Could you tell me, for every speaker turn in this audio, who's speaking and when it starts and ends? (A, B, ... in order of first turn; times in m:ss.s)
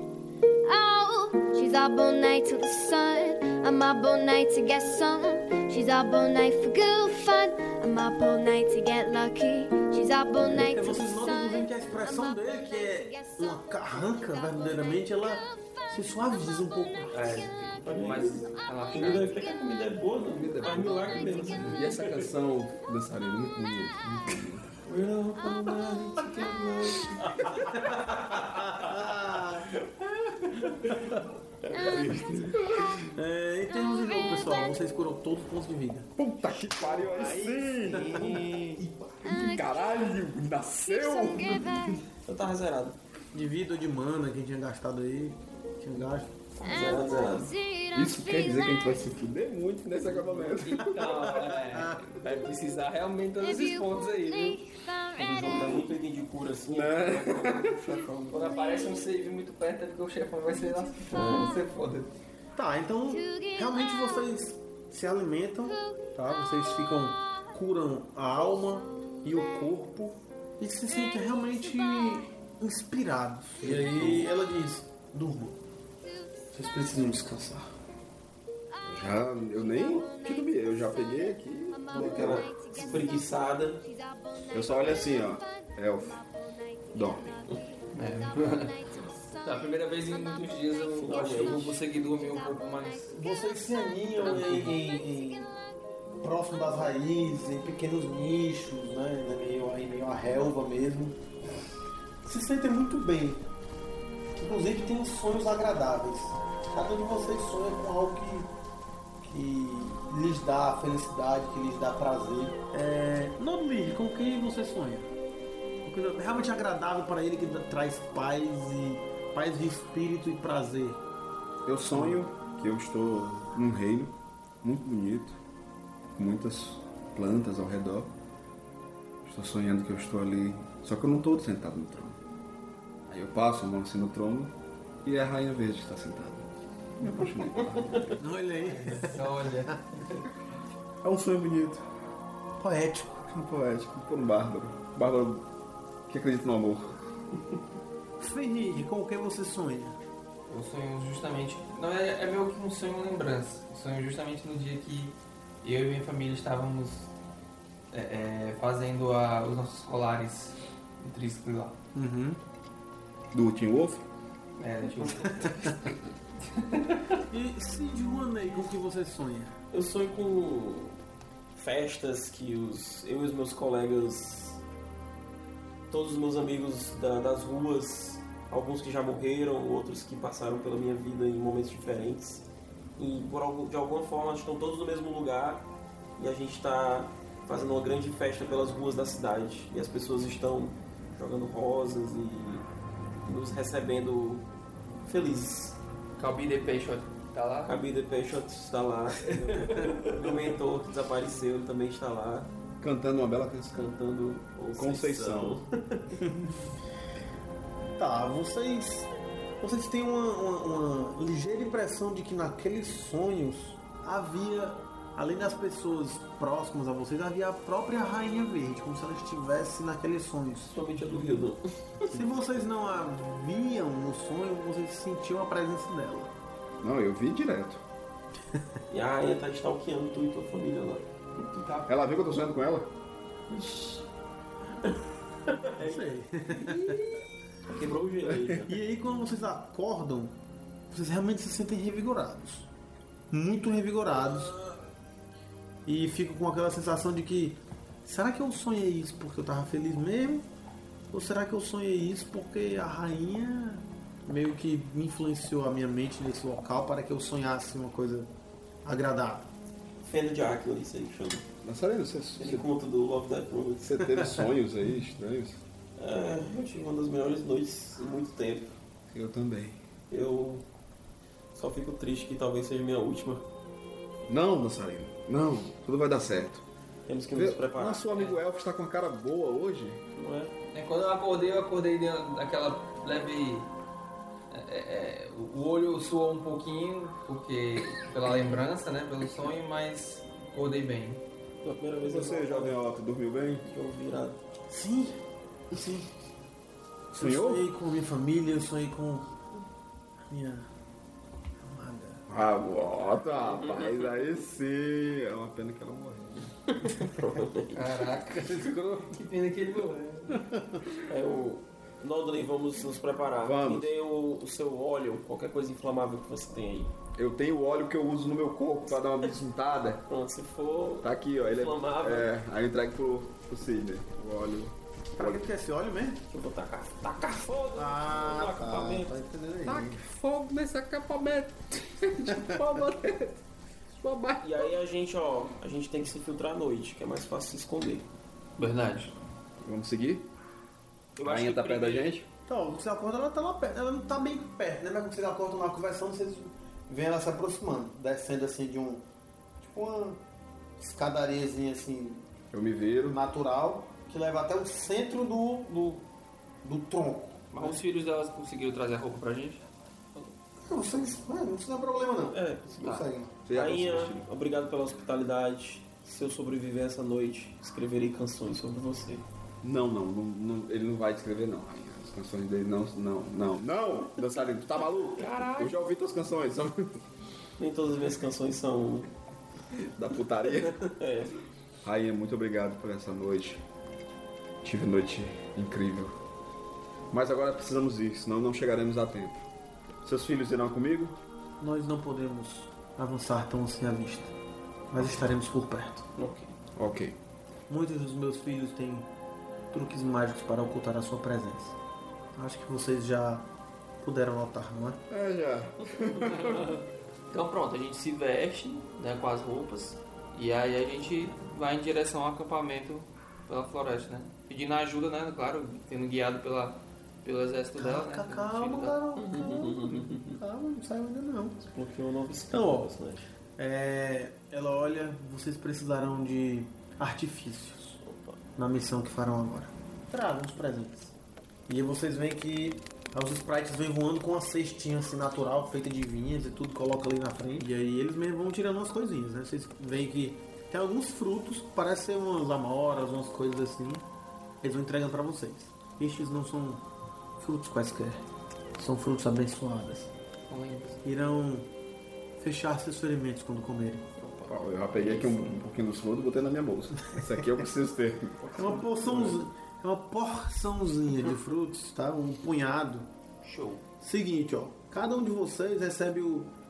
0:00.6-0:19.9 A
0:10.4-0:17.4 B
0:17.1-0:19.4 C
0:17.8-0:22.4 D
0:20.3-0:24.6 E
0:20.5-0:22.3 A
0:24.8-0:28.9 D
0:25.4-0:26.6 A
0:27.7-0:29.7 B
0:29.8-0:30.4 D
0:30.9-0:31.2 B
0:31.6-0:32.6 D
0:31.7-0:32.4 A
0:31.8-0:33.0 E
0:33.0-0:36.1 B
0:33.7-0:35.1 A
0:36.2-0:38.4 E
0:37.0-0:38.8 D
0:37.2-0:37.6 C
0:37.9-0:39.2 B
0:39.2-0:40.2 A
0:39.2-0:41.8 E
0:40.8-0:42.1 A
0:42.1-0:43.0 D
0:43.3-0:46.3 B
0:46.6-0:47.5 D
0:46.6-0:49.1 A
0:47.9-0:51.1 E
0:50.8-0:52.0 B
0:50.9-0:54.6 C
0:53.4-0:55.9 A
0:55.2-0:58.6 D
0:56.7-0:57.8 E
0:58.3-1:02.1 C
0:58.5-0:59.2 A
1:00.5-1:01.7 A
1:01.1-1:01.6 D
1:02.6-1:15.6 B
1:03.1-1:04.4 A
1:05.7-1:07.5 A
1:08.5-1:09.8 A
1:10.8-1:12.3 A
1:13.6-1:14.3 E
1:13.7-1:14.2 D
1:16.0-1:16.6 A
1:16.5-1:17.7 B
1:18.7-1:37.4 A
1:18.8-1:22.5 E
1:21.9-1:23.8 D
1:24.5-1:26.2 E
1:26.9-1:27.4 E
1:27.9-1:28.8 C
1:29.4-1:33.2 C
1:31.0-1:31.8 D
1:33.1-1:35.5 B
1:34.2-1:34.8 C
1:36.2-1:41.2 B
1:42.2-1:43.4 B
1:44.4-1:48.5 B
1:49.2-1:55.1 B
1:55.8-2:01.0 B
2:01.7-2:05.4 E
2:06.2-2:08.1 E
2:09.2-2:12.2 E
2:13.1-2:18.2 E
2:17.4-2:18.2 D
2:18.2-2:19.2 B
2:18.6-2:20.2 C
2:21.0-2:21.8 E
2:22.6-2:23.2 B
2:23.3-2:25.5 E
2:26.1-2:27.0 E
2:28.2-2:30.0 B
2:30.5-2:37.1 C
2:37.9-2:41.8 C
2:42.0-2:42.4 B
2:43.3-2:44.0 E
2:44.6-2:45.9 C
2:45.4-2:45.7 B
2:46.4-2:47.2 C
2:47.3-2:49.6 B
2:49.7-2:51.0 D
2:51.6-2:54.6 D
2:55.9-3:02.4 D
3:03.0-3:12.7 D
3:13.2-3:14.5 D
3:15.0-3:15.8 D
3:16.2-3:17.8 C
3:17.7-3:22.5 D
3:22.8-3:23.9 E
3:23.7-3:26.2 D
3:24.8-3:25.6 E
3:26.2-3:26.5 B
3:28.0-3:29.1 B
3:29.6-3:40.8 B
3:40.7-3:42.2 D
3:42.1-3:46.3 B
3:46.8-3:47.8 E
3:48.5-3:48.8 B
3:48.9-3:51.8 D
3:51.9-3:52.9 E
3:53.5-3:54.1 D
3:54.8-3:58.8 D
3:55.8-3:57.2 B
3:58.7-4:00.4 B
4:00.9-4:02.7 B
4:03.3-4:04.6 B
4:04.4-4:04.8 D
4:05.9-4:10.5 B
4:11.1-4:18.3 B
4:18.8-4:19.5 B
4:20.0-4:21.5 D
4:21.6-4:22.7 E
4:22.4-4:24.1 D
4:23.8-4:25.6 E
4:26.0-4:28.8 D
4:29.1-4:29.8 E
4:30.1-4:30.7 D
4:31.6-4:33.4 D
4:34.3-4:36.6 E
4:37.1-4:38.1 D
4:37.3-4:40.0 E
4:38.1-4:38.4 C
4:40.2-4:40.6 D
4:40.7-4:43.7 C
4:44.5-4:51.2 C
4:51.6-4:52.8 D
4:52.0-4:53.7 E
4:53.6-4:54.4 D
4:54.7-4:56.1 B
4:57.1-4:59.4 B
4:57.2-4:57.7 E
5:00.3-5:00.7 B
5:01.6-5:02.2 B
5:02.3-5:06.6 E
5:06.7-5:08.0 D
5:07.7-5:10.5 C
5:10.3-5:10.8 B
5:11.0-5:16.9 D
5:13.4-5:13.9 E
5:17.2-5:20.1 E
5:20.1-5:22.3 D
5:21.0-5:25.5 E
5:25.2-5:26.2 B
5:26.3-5:29.2 D
5:27.8-5:30.0 B
5:29.6-5:33.4 E
5:32.3-5:32.7 B
5:33.9-5:34.6 E
5:34.4-5:38.1 D
5:38.6-5:39.1 C
5:39.6-5:40.3 E
5:41.2-5:42.1 C
5:41.2-5:42.3 E
5:42.5-5:49.0 B
5:49.6-5:50.2 B
5:50.8-5:52.2 B
5:52.5-5:53.2 E
5:53.1-5:56.1 B
5:56.6-5:57.5 B
5:57.5-6:00.3 C
6:00.6-6:03.4 B
6:02.3-6:09.3 D
6:02.8-6:03.1 C
6:03.4-6:04.3 E
6:09.6-6:17.0 E
6:14.9-6:15.8 C
6:17.6-6:19.1 D
6:19.7-6:20.8 E
6:20.4-6:21.4 D
6:21.8-6:23.6 E
6:24.6-6:26.2 E
6:27.1-6:29.5 E
6:30.0-6:31.2 E
6:31.6-6:34.3 B
6:34.9-6:36.1 B
6:36.2-6:36.6 D
6:36.8-6:37.2 E
6:37.7-6:39.1 B
6:39.7-6:41.8 B
6:42.4-6:43.5 B
6:44.0-6:45.0 B
6:45.1-6:46.7 E
6:47.3-6:59.0 C
6:57.8-7:01.6 B
6:59.2-7:00.4 D
7:01.6-7:03.3 D
7:02.5-7:02.9 B
7:03.6-7:08.0 B
7:08.0-7:08.4 D
7:08.6-7:11.1 B
7:11.7-7:24.0 B
7:24.6-7:26.8 B
7:27.4-7:28.2 B
7:28.8-7:30.1 B
7:30.5-7:31.0 C
7:31.0-7:31.7 B
7:32.4-7:34.1 B
7:34.2-7:35.5 C
7:34.5-7:38.6 E
7:38.4-7:39.4 D
7:38.6-7:43.1 B
7:43.4-7:43.8 C
7:44.0-7:46.5 B